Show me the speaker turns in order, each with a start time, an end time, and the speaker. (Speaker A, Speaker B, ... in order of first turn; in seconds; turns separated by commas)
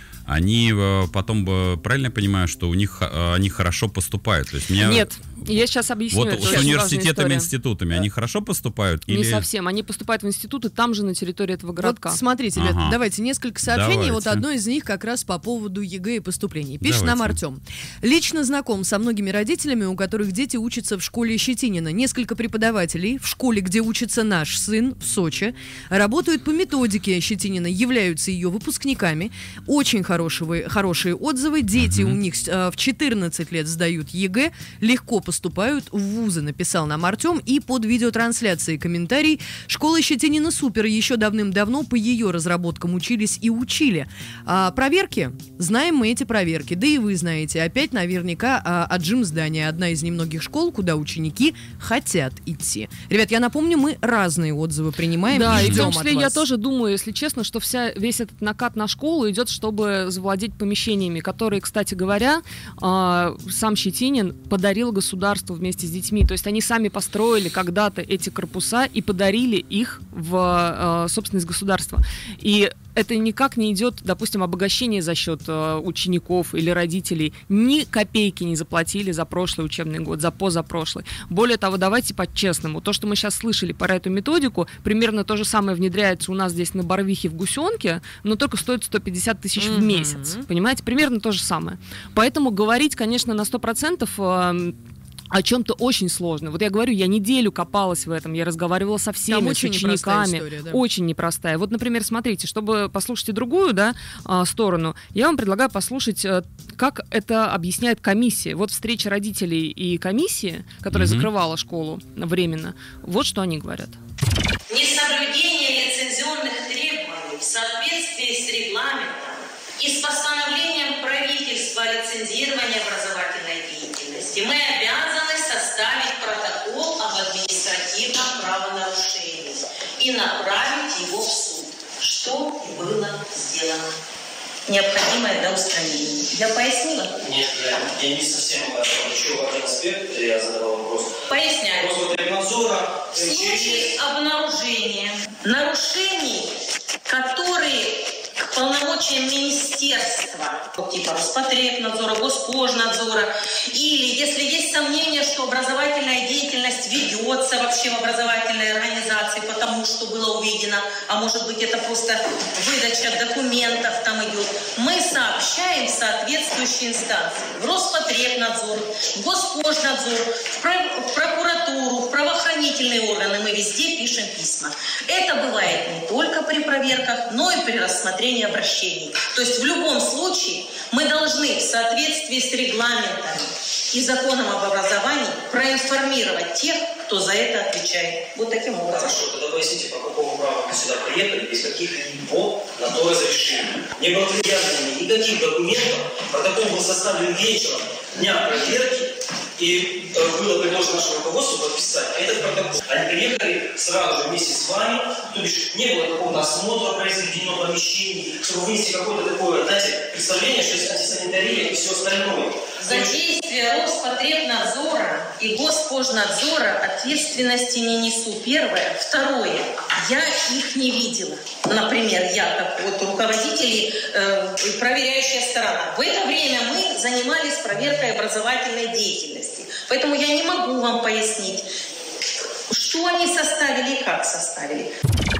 Speaker A: 0.3-5.1, Speaker B: 4.8-7.5, Speaker A: 6.1-9.4, Speaker B: 9.1-12.2, Speaker C: 11.8-56.4, Speaker A: 12.6-12.9, Speaker A: 13.7-14.4, Speaker A: 16.8-17.4, Speaker A: 31.8-32.2, Speaker B: 55.3-94.7, Speaker A: 55.5-55.9, Speaker C: 89.6-90.5, Speaker B: 95.3-114.0, Speaker C: 99.3-100.8, Speaker A: 110.9-111.3, Speaker D: 114.7-133.9, Speaker D: 134.7-137.2, Speaker E: 137.2-141.2, Speaker D: 141.3-142.0, Speaker E: 141.7-143.9, Speaker D: 143.2-146.5, Speaker D: 147.1-189.2, Speaker E: 188.9-213.1, Speaker D: 212.8-231.7, Speaker D: 232.7-234.9